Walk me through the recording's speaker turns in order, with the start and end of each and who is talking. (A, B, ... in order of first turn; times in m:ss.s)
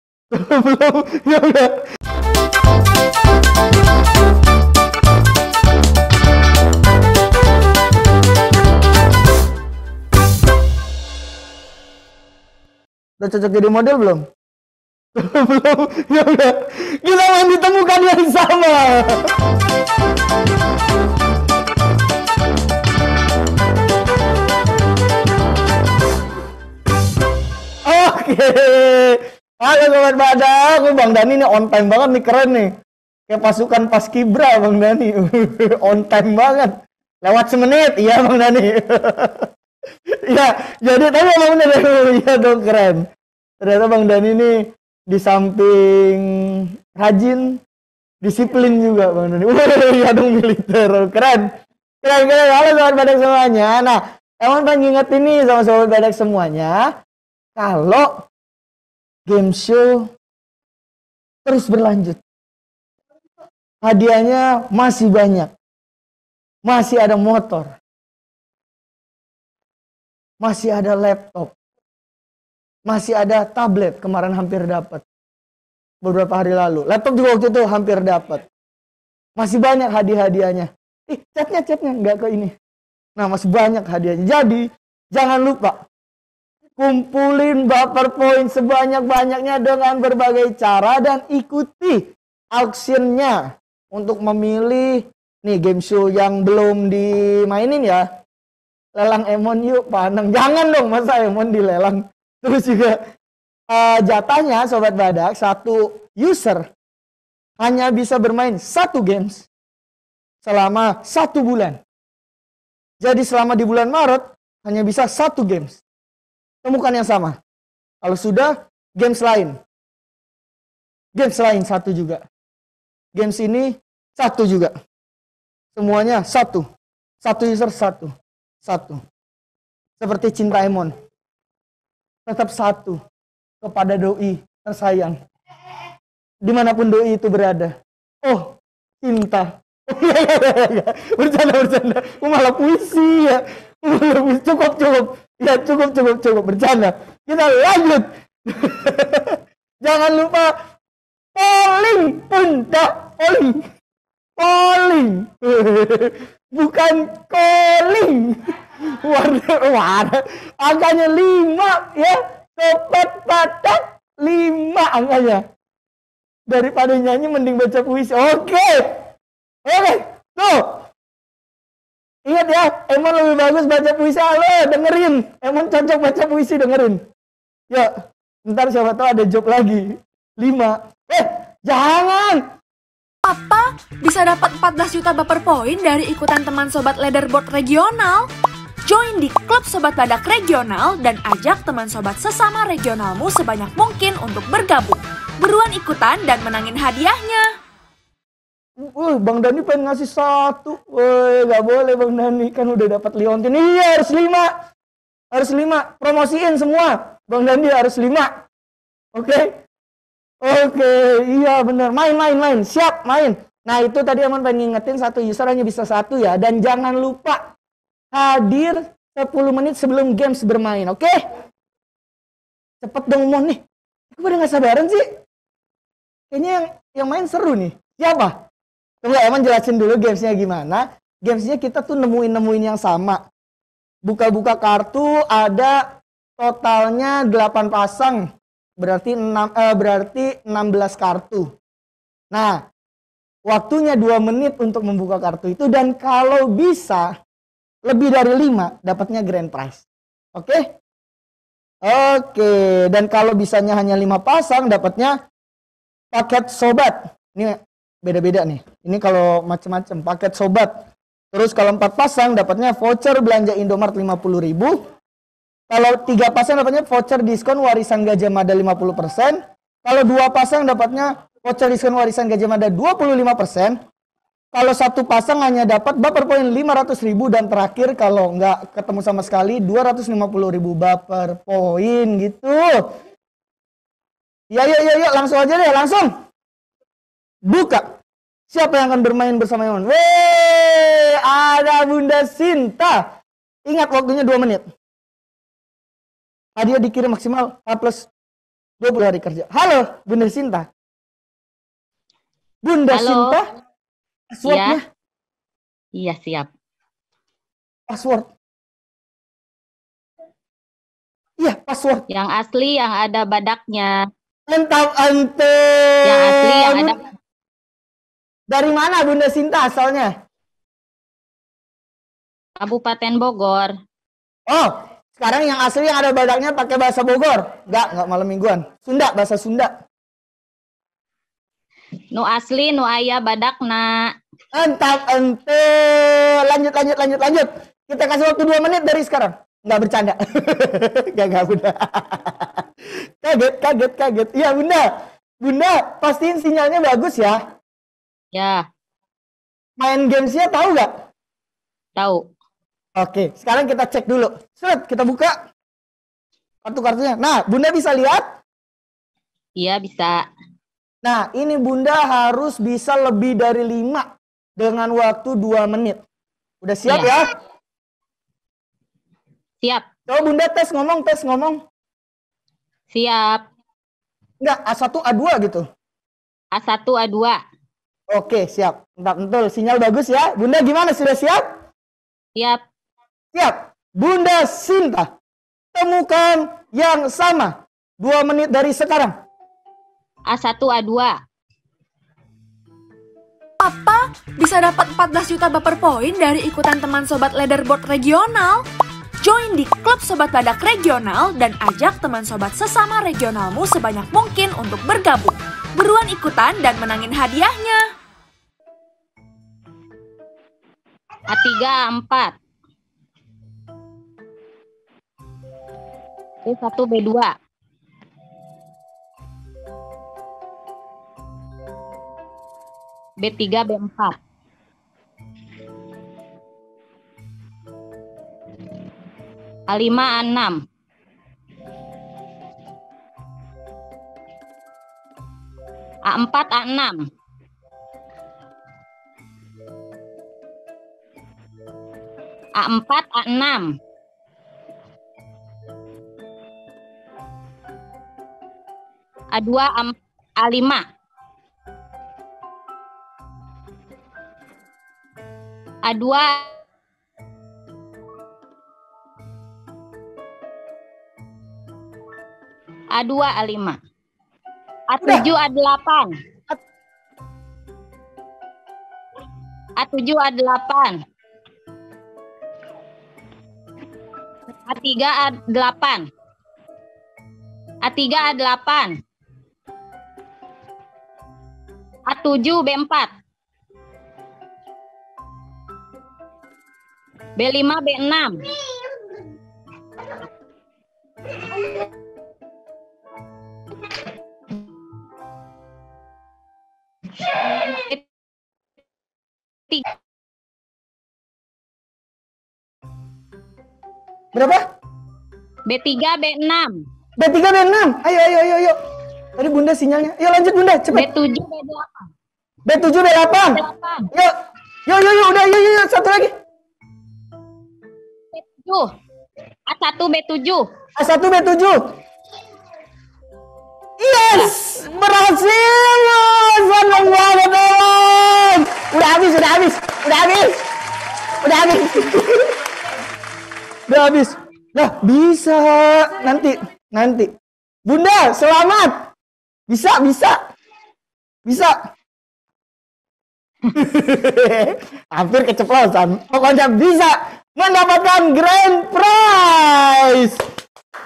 0:00.3-0:01.8 A
0:13.2-0:14.2 A
0:15.1-0:19.3 A
0:27.8-0:32.7 A
0:33.3-0:39.5 A
0:40.3-0:43.0 A
0:43.6-0:47.6 A
0:48.2-0:51.5 A
0:52.0-0:56.9 A
0:57.6-0:58.3 A
0:59.3-1:00.1 A
1:01.4-1:02.2 A
1:03.8-1:05.5 A
1:06.6-1:07.7 A
1:10.4-1:11.5 A
1:12.9-1:15.0 A
1:16.0-1:18.4 A
1:19.4-1:22.5 A
1:23.2-1:25.8 A
1:26.8-1:38.1 A
1:39.0-1:43.0 A
1:43.7-1:46.6 A
1:47.6-1:49.5 A
1:50.4-1:51.8 A
1:53.0-1:55.8 A
1:56.6-1:57.4 A
1:58.0-1:59.6 A
2:01.1-2:02.2 A
2:03.1-2:04.7 A
2:05.7-2:06.7 A
2:07.2-2:09.0 A
2:10.0-2:10.9 A
2:12.2-2:13.0 A
2:13.6-2:15.2 A
2:16.4-2:30.5 A
2:31.3-2:33.6 A
2:34.4-2:45.4 A
2:46.5-2:48.9 A
2:49.6-2:50.8 A
2:52.2-2:57.0 A
2:58.4-3:02.4 A
3:03.2-3:08.3 B
3:08.9-3:17.4 B
3:18.8-3:24.5 A
3:25.3-3:28.3 A
3:29.1-3:29.6 A
3:30.4-3:37.4 A
3:38.1-3:41.2 A
3:42.8-3:43.6 A
3:44.1-3:45.1 A
3:46.3-3:48.4 A
3:49.0-3:53.2 A
3:54.0-3:55.8 A
3:56.4-3:58.2 A
3:58.8-4:01.5 A
4:02.3-4:02.6 A
4:03.5-4:07.1 A
4:07.8-4:09.8 A
4:10.3-4:10.7 A
4:11.8-4:15.2 A
4:16.1-4:20.7 A
4:21.3-4:24.8 A
4:25.7-4:33.8 A
4:34.5-4:42.9 A
4:44.5-4:46.1 A
4:47.4-4:47.9 A
4:48.5-4:53.0 A
4:53.7-4:54.6 A
4:56.6-4:58.1 A
4:58.8-5:00.7 A
5:02.6-5:03.5 A
5:02.9-5:03.4 C
5:04.3-5:04.8 A
5:04.4-5:04.8 C
5:06.0-5:06.5 C
5:07.9-5:08.3 A
5:11.4-5:12.0 A
5:12.1-5:13.9 C
5:14.5-5:17.0 A
5:16.0-5:17.0 C
5:18.5-5:20.1 A
5:22.6-5:23.7 C
5:24.5-5:29.7 A
5:32.1-5:34.1 C
5:34.5-5:42.6 A
5:43.2-5:44.9 A
5:45.4-5:47.4 A
5:48.3-5:48.6 C
5:49.8-5:50.9 A
5:52.0-5:52.2 C
5:53.0-5:55.4 A
5:56.6-5:58.2 A
5:59.6-6:00.2 C
6:01.0-6:06.0 A
6:06.6-6:07.3 A
6:06.8-6:07.1 C
6:10.1-6:11.6 A
6:12.9-6:13.4 C
6:14.4-6:15.6 A
6:16.5-6:17.4 C
6:18.1-6:21.5 A
6:22.3-6:22.6 C
6:23.3-6:25.1 A
6:25.7-6:29.1 A
6:30.3-6:31.1 C
6:33.6-6:38.6 B
6:39.2-6:47.8 B
6:51.3-6:52.4 C
6:56.4-6:57.3 C
7:03.2-7:04.1 C
7:09.7-7:10.6 C
7:16.1-7:17.0 C
7:22.6-7:23.7 C
7:29.3-7:30.8 C
7:35.8-7:36.5 C
7:42.9-7:43.8 C
7:44.9-7:46.1 C
7:49.8-7:51.0 C
7:54.7-7:56.0 C
7:57.8-7:59.0 C
8:02.1-8:03.1 C
8:07.4-8:08.4 C
8:17.3-8:18.0 C
8:24.3-8:24.6 A
8:25.7-8:26.8 C
8:27.2-8:28.8 A
8:29.4-8:31.1 A
8:30.9-8:32.0 C
8:32.6-8:33.6 A
8:33.5-8:34.1 C
8:34.9-8:36.3 A
8:38.3-8:38.9 C
8:39.7-8:40.6 C
8:41.0-8:41.8 A
8:44.0-8:50.7 A
8:51.4-8:52.5 A
8:53.9-8:57.3 A
8:57.8-8:58.9 A
8:59.7-9:00.4 A
9:01.4-9:01.7 A
9:03.7-9:10.4 A